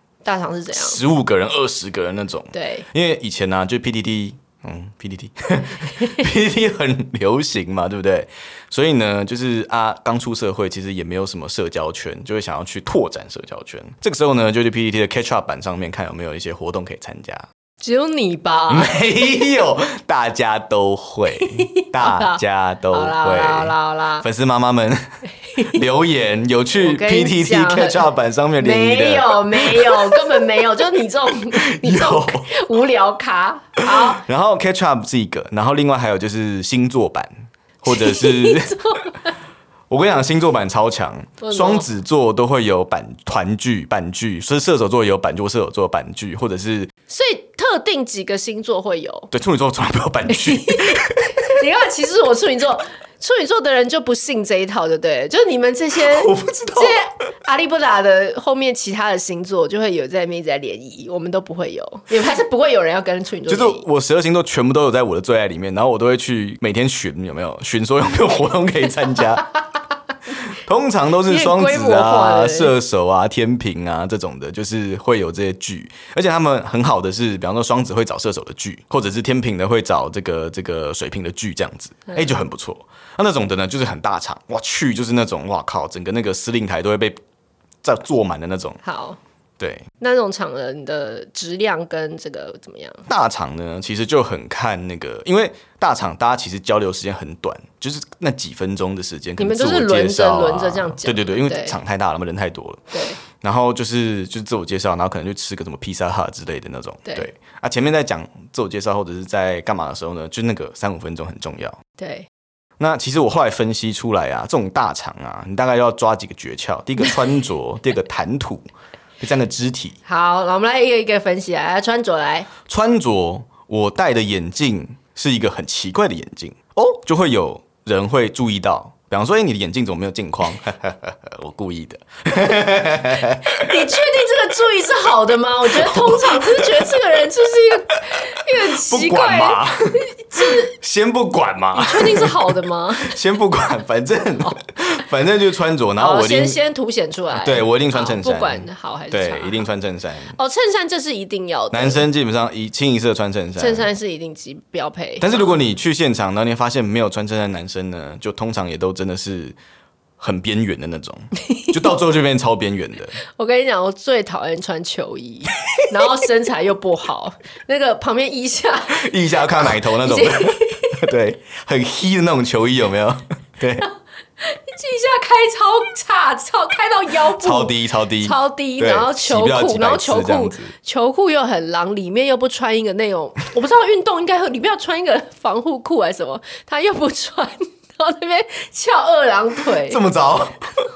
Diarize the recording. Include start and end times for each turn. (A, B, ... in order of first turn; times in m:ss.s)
0:00.2-0:01.0 A
0:00.7-0:17.5 B
0:02.5-0:02.9 A
0:17.8-0:19.5 A
0:18.7-0:25.0 B
0:21.4-0:22.4 A
0:22.9-0:24.2 A
0:25.5-0:25.8 A
0:25.6-0:30.4 B
0:26.8-0:28.0 A
0:28.6-0:34.2 A
0:31.6-0:32.5 B
0:33.9-0:38.8 B
0:37.9-0:39.3 A
0:39.9-0:46.9 B
0:41.4-0:41.9 A
0:47.1-0:49.3 A
0:49.3-0:51.5 B
0:50.3-1:03.8 A
0:55.9-0:57.0 B
1:03.5-1:09.5 B
1:10.5-1:27.2 B
1:11.2-1:12.7 A
1:22.1-1:22.4 A
1:27.8-1:28.8 B
1:28.8-1:29.2 A
1:29.6-1:29.8 B
1:30.0-1:33.0 A
1:33.1-1:51.8 B
1:39.4-1:41.8 A
1:42.9-1:43.2 A
1:52.0-1:52.3 A
1:52.8-1:58.7 B
1:59.2-2:00.0 B
2:00.0-2:02.5 A
2:02.6-2:14.1 B
2:13.5-2:20.7 A
2:15.6-2:17.2 B
2:18.5-2:26.6 B
2:21.7-2:23.2 A
2:26.0-2:29.7 A
2:27.3-2:30.3 B
2:30.3-2:32.0 A
2:31.7-2:33.9 B
2:33.6-2:35.6 A
2:35.2-2:39.6 B
2:40.2-2:43.2 B
2:43.3-2:51.1 A
2:48.9-2:53.9 B
2:54.4-3:10.0 A
2:57.3-3:00.7 B
3:09.7-3:10.7 B